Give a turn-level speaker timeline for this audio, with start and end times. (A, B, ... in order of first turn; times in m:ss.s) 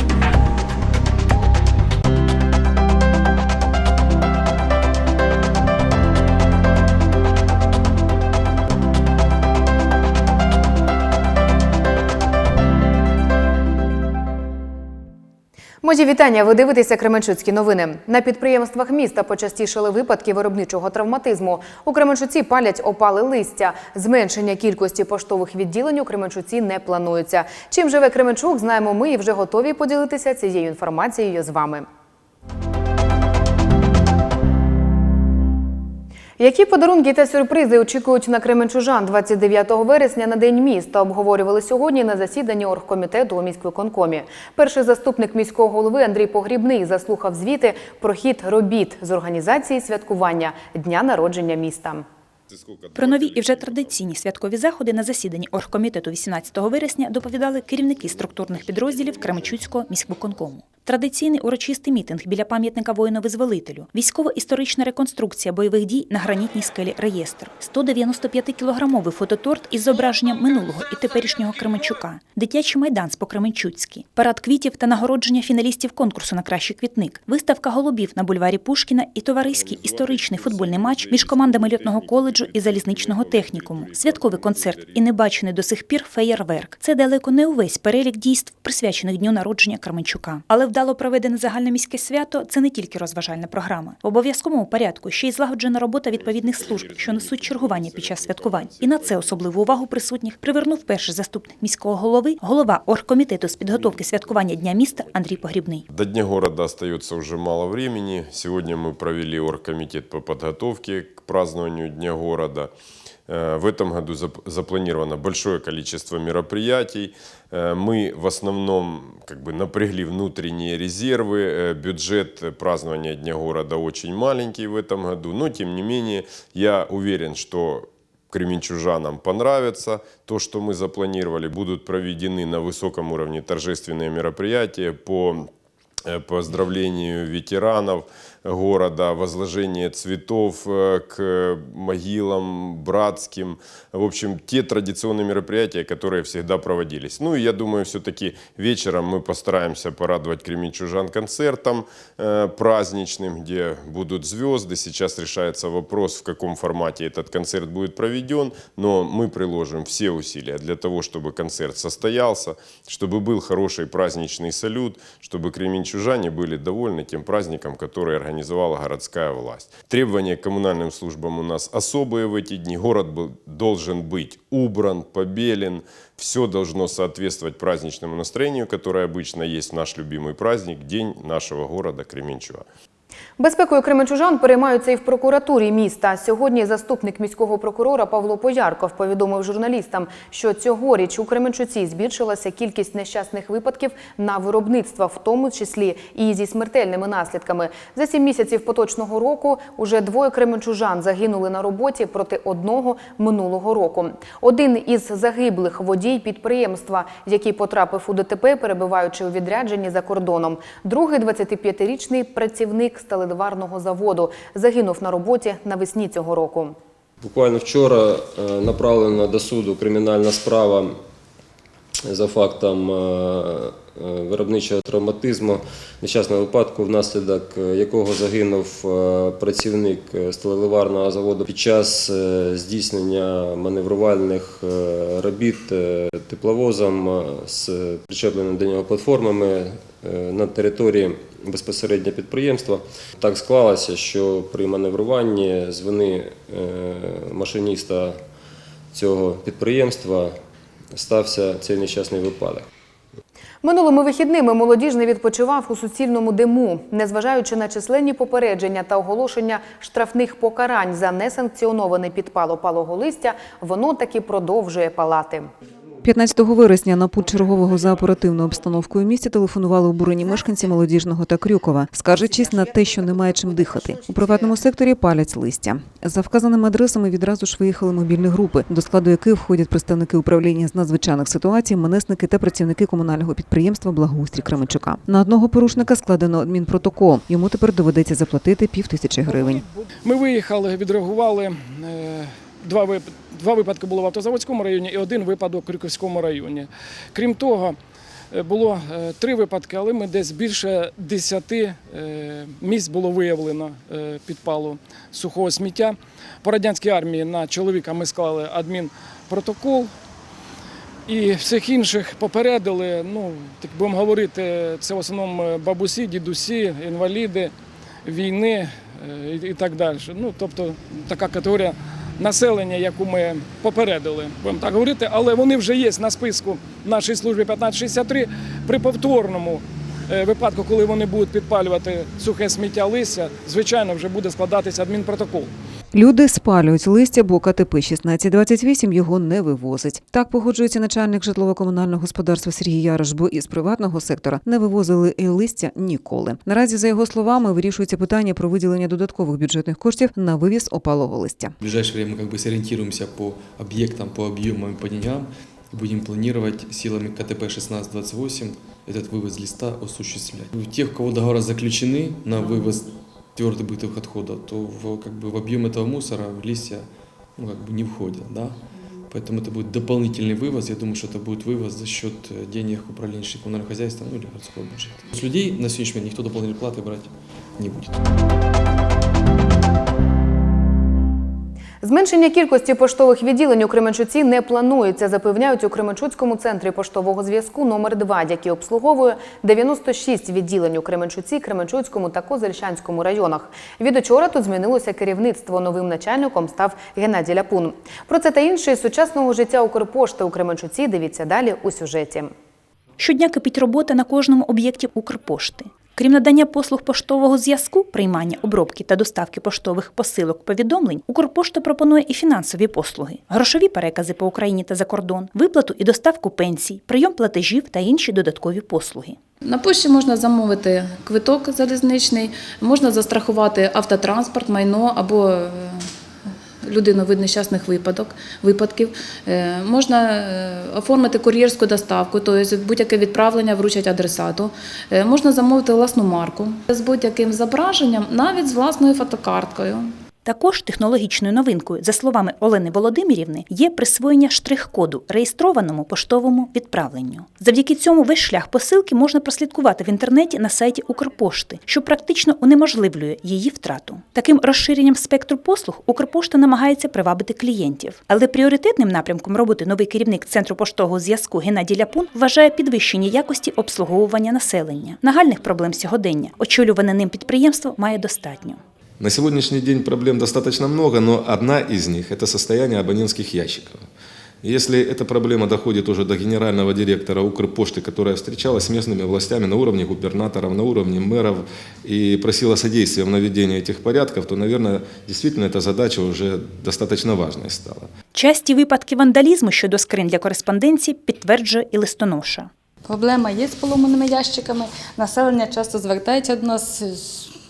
0:15.8-0:31.9 A
0:36.4-0:52.0 A
0:52.5-0:54.0 B
0:53.0-1:45.8 C
0:58.4-0:59.2 B
1:19.5-1:25.0 B
1:36.1-1:39.5 B
1:43.7-1:52.7 B
1:53.3-2:15.5 B
2:16.1-3:02.7 B
3:03.4-3:36.8 A
3:37.2-3:41.0 D
3:42.0-4:08.2 D
4:08.9-4:10.4 D
4:10.9-4:12.7 D
4:13.6-4:25.5 A
4:26.0-4:49.6 E
4:49.3-4:57.8 F
4:58.3-5:09.9 F
5:11.1-5:17.5 F
5:18.1-5:35.5 F
5:35.9-5:51.6 E
5:51.6-6:18.0 G
6:21.8-6:42.3 A
6:43.0-6:59.2 C
6:59.4-7:05.9 H
7:06.6-7:19.9 H
7:20.2-7:48.6 C
7:49.0-7:53.9 I
7:54.4-8:07.9 I
8:08.1-8:12.5 C
8:12.8-8:17.3 J